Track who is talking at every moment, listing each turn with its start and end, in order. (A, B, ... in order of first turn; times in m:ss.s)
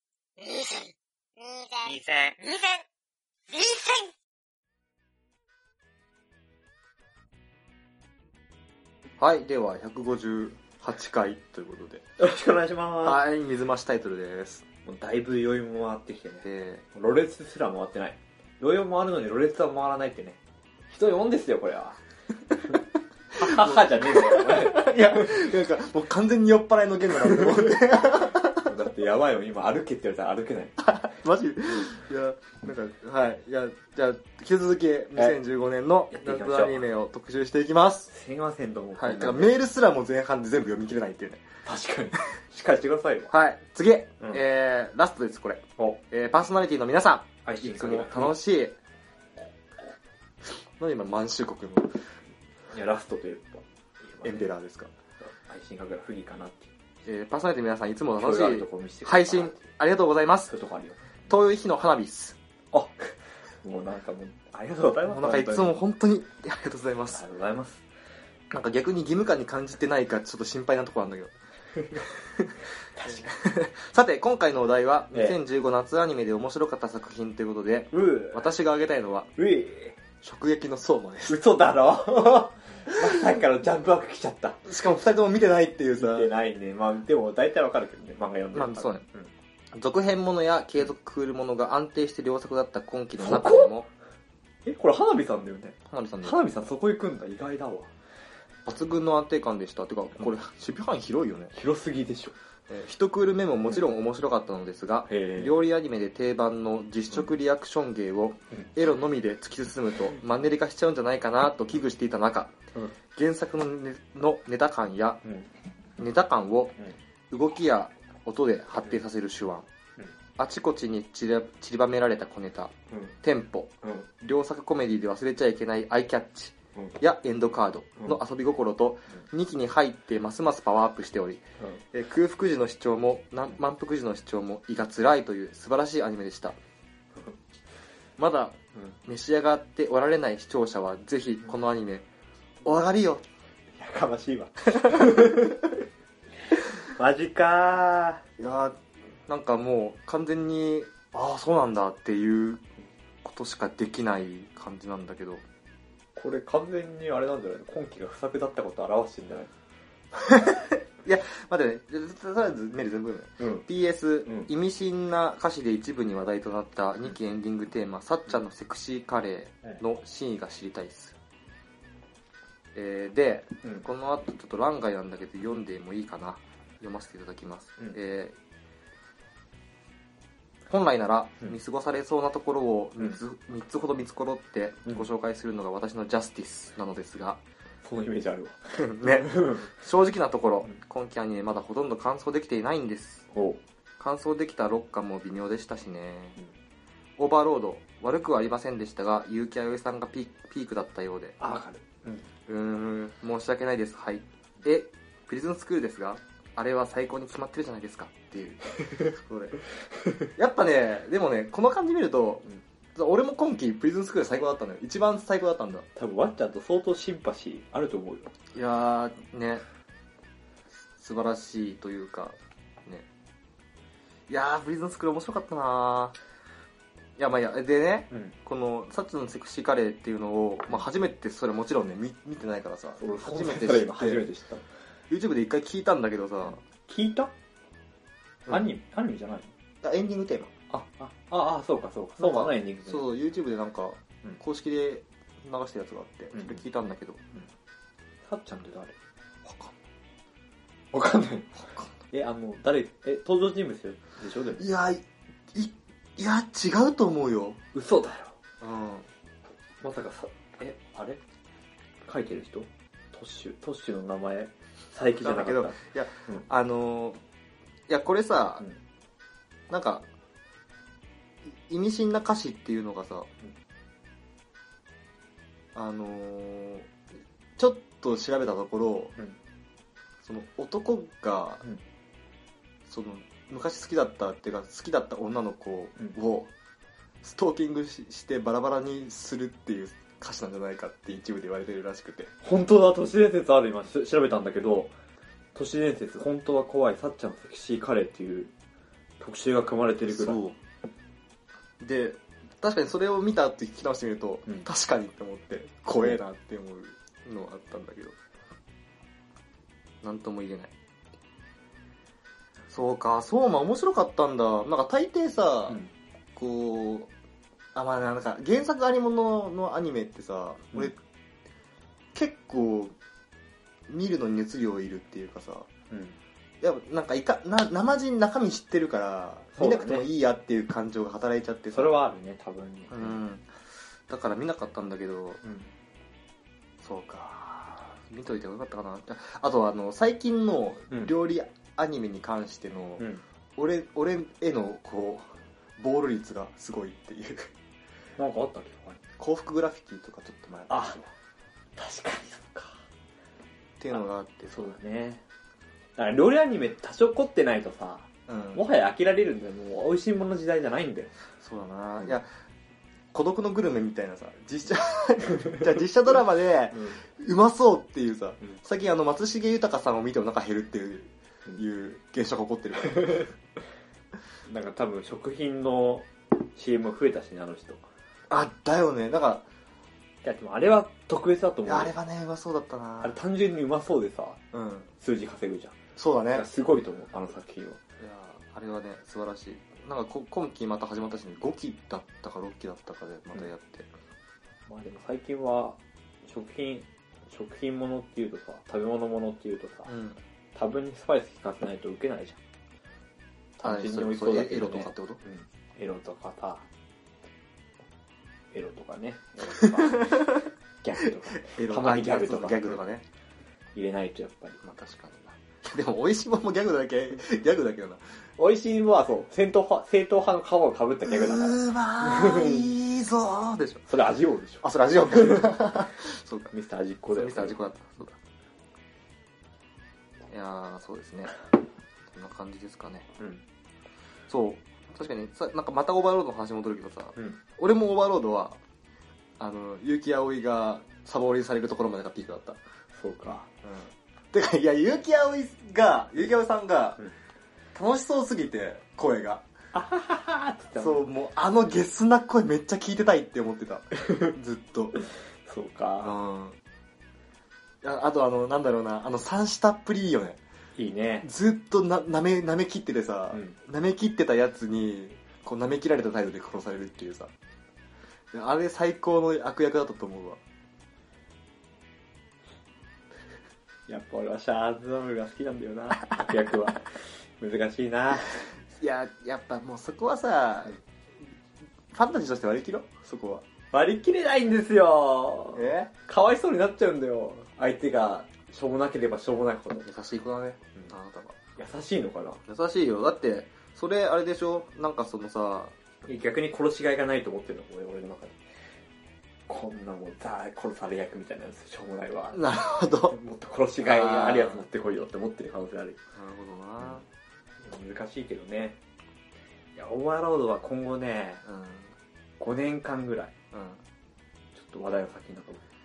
0:00.4-0:02.8 A
0:03.5-0:04.1 A
0:09.2-0:12.0 B
0:12.2-0:13.2 C
0:13.0-0:14.6 B
0:14.8-0:22.0 C
0:16.4-0:16.8 B
0:23.4-0:25.3 C
0:23.4-0:28.7 B
0:28.6-0:30.9 C
0:30.8-0:38.1 B
0:36.1-0:36.8 C
0:38.1-0:39.5 C
0:39.0-0:41.4 B
0:41.6-0:43.3 C
0:43.3-0:48.8 B
0:47.4-0:48.3 C
0:50.8-0:52.0 B
0:52.7-0:54.5 C
0:54.2-0:54.9 B
0:55.2-0:56.7 C
0:57.0-1:00.5 B
0:58.2-0:59.7 C
1:00.5-1:01.2 C
1:01.3-1:02.4 B
1:02.7-1:05.8 C
1:05.1-1:07.2 B
1:07.1-1:07.8 C
1:08.5-1:11.3 B
1:12.0-1:19.3 B
1:13.0-1:13.3 C
1:15.1-1:15.4 C
1:17.9-1:18.5 C
1:19.4-1:20.0 C
1:20.2-1:21.4 B
1:21.3-1:24.6 C
1:24.6-1:26.3 B
1:26.0-1:29.3 C
1:28.5-1:29.0 B
1:29.7-1:33.9 B
1:33.2-1:33.7 C
1:34.6-1:37.9 C
1:35.9-1:36.4 B
1:38.6-1:41.5 B
1:41.5-1:42.3 C
1:42.7-1:52.5 B
1:45.1-1:45.6 C
1:53.1-1:55.2 B
1:56.0-1:56.8 B
1:57.3-1:59.7 B
2:00.4-2:16.6 B
2:18.2-2:22.0 B
2:22.6-2:23.2 B
2:23.8-2:25.6 C
2:24.7-2:25.6 B
2:26.8-2:28.2 C
2:28.4-2:32.6 B
2:33.2-2:35.4 B
2:36.2-2:39.5 C
2:40.2-2:51.2 B
2:43.4-2:43.6 C
2:52.7-2:58.4 B
3:00.7-3:07.4 B
3:07.8-3:09.7 C
3:08.7-3:13.3 B
3:13.3-3:13.6 C
3:14.0-3:16.4 B
3:17.2-3:21.4 B
3:21.4-3:22.2 C
3:22.5-3:29.6 B
3:30.3-3:35.9 B
3:36.0-3:38.3 C
3:38.5-3:39.6 B
3:41.0-3:43.0 B
3:44.3-3:46.2 B
3:47.2-3:54.3 B
3:53.0-3:54.6 C
3:55.1-3:56.6 B
3:56.8-3:57.3 C
3:58.5-3:59.5 C
3:59.8-4:00.5 B
4:00.7-4:03.1 C
4:02.2-4:07.2 B
4:06.3-4:06.6 C
4:08.2-4:09.0 C
4:09.4-4:09.8 B
4:10.9-4:11.5 C
4:12.1-4:14.6 C
4:14.6-4:15.0 B
4:15.5-4:17.6 B
4:17.7-4:18.4 C
4:18.6-4:19.1 B
4:19.8-4:21.2 C
4:22.0-4:26.4 C
4:25.2-4:27.2 B
4:27.9-4:28.6 B
4:29.7-4:30.1 B
4:31.7-4:33.3 B
4:35.7-4:36.9 B
4:37.6-4:39.2 B
4:40.2-4:41.6 B
4:42.9-4:46.5 B
4:47.2-4:52.3 B
4:52.4-4:54.9 C
4:55.5-4:58.5 C
4:59.2-5:00.4 C
5:00.1-5:00.6 B
5:01.8-5:08.2 B
5:10.0-5:10.7 B
5:12.7-5:15.8 B
5:16.4-5:17.1 B
5:17.7-5:21.0 B
5:22.1-5:22.9 B
5:23.9-5:25.7 B
5:25.9-5:26.2 C
5:26.6-5:32.0 B
5:29.6-5:30.1 C
5:31.7-5:33.2 C
5:32.9-5:33.5 B
5:34.1-5:35.4 B
5:35.4-5:35.7 C
5:36.8-5:47.5 B
5:43.0-5:43.2 C
5:48.2-5:49.0 C
5:49.2-5:51.1 B
5:50.7-5:51.0 C
5:51.8-5:52.8 C
5:53.8-5:54.6 B
5:54.5-5:55.2 C
5:56.0-6:01.1 C
5:58.3-5:58.6 B
6:01.4-6:02.3 B
6:03.1-6:13.3 B
6:14.5-6:17.8 C
6:18.3-6:19.4 B
6:20.2-6:21.9 C
6:21.6-6:23.2 B
6:23.0-6:24.4 C
6:24.5-6:24.9 B
6:25.0-6:25.7 C
6:26.0-6:26.4 B
6:26.3-6:27.8 C
6:28.0-6:33.9 B
6:34.7-6:39.9 C
6:39.9-6:40.2 B
6:40.5-6:42.4 C
6:43.6-6:46.6 C
6:43.6-6:45.2 B
6:48.5-6:52.8 C
6:49.5-6:50.4 B
6:51.4-6:53.0 B
6:53.7-6:54.6 C
6:54.6-6:58.2 B
6:58.4-7:02.7 C
7:01.0-7:03.8 B
7:03.9-7:05.6 C
7:04.6-7:06.5 B
7:06.5-7:07.6 C
7:07.1-7:08.2 B
7:10.3-7:11.4 B
7:12.1-7:13.1 B
7:14.3-7:18.6 B
7:19.4-7:22.6 B
7:23.0-7:23.5 C
7:23.6-7:27.0 B
7:27.7-7:29.4 B
7:29.7-7:31.0 C
7:30.8-7:35.0 B
7:34.0-7:34.3 C
7:35.4-7:36.1 C
7:36.0-7:36.6 B
7:37.8-7:40.4 B
7:40.8-7:41.3 C
7:41.2-7:47.3 B
7:48.3-7:50.4 B
7:53.9-7:58.4 C
7:58.7-8:00.8 B
8:01.9-8:03.4 B
8:03.7-8:09.9 C
8:05.5-8:05.9 B
8:09.8-8:11.4 B
8:11.6-8:12.4 C
8:12.4-8:15.8 B
8:16.0-8:18.4 C
8:19.5-8:22.4 C
8:22.3-8:23.2 B
8:23.1-8:26.0 C
8:23.8-8:24.6 B
8:26.1-8:27.0 B
8:27.6-8:28.8 C
8:29.8-8:31.4 C
8:31.4-8:31.9 B
8:32.4-8:33.3 C
8:33.5-8:33.8 B
8:34.6-8:35.6 C